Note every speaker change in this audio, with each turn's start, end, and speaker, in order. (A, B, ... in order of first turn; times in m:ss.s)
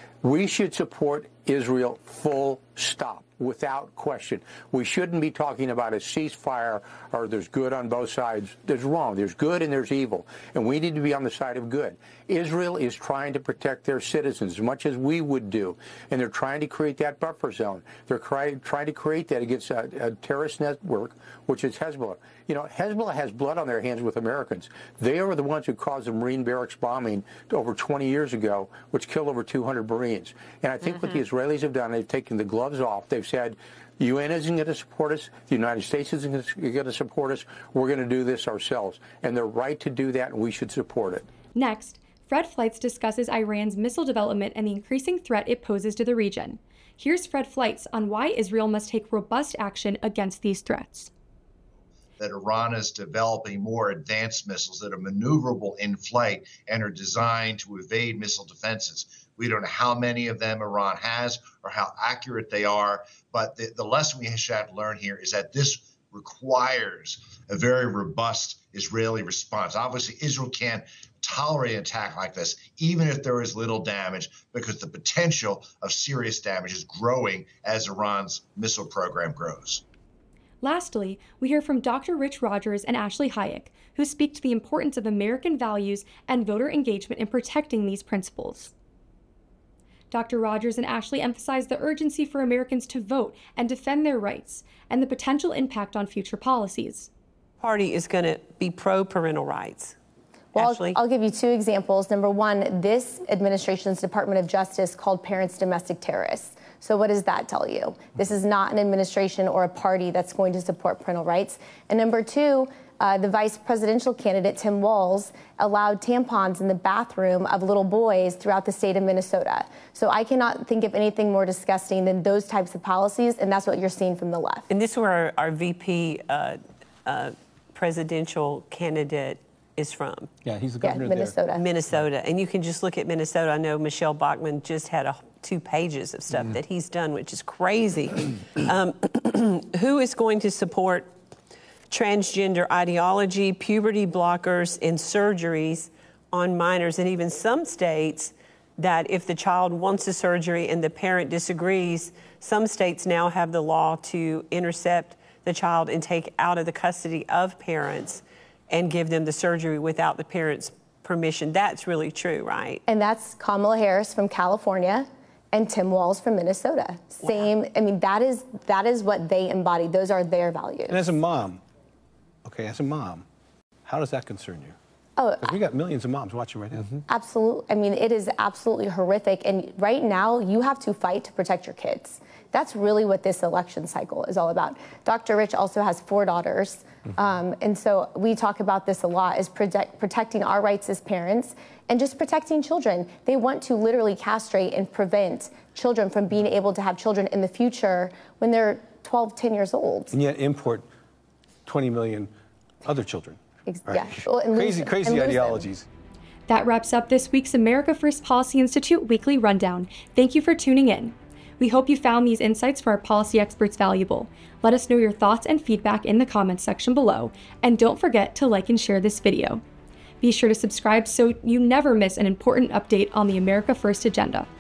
0:00.2-0:41.3 A
0:41.6-0:51.1 B
0:52.2-1:19.8 C
1:20.6-1:28.7 B
1:30.1-1:37.1 B
1:37.6-1:40.0 D
1:40.5-2:04.7 E
1:40.6-1:40.9 D
2:04.7-2:10.3 D
2:10.5-2:11.3 F
2:10.8-2:11.8 E
2:11.6-2:21.1 D
2:21.9-2:42.8 D
2:42.9-2:51.1 E
2:50.9-2:51.6 F
2:52.4-2:53.3 F
2:53.8-2:54.8 F
2:55.2-2:55.6 E
2:55.4-2:57.0 F
2:57.1-3:20.1 E
3:20.1-3:20.9 F
3:21.6-3:22.3 F
3:22.8-3:25.9 F
3:23.7-3:25.7 E
3:26.5-3:39.6 B
3:40.2-3:44.5 B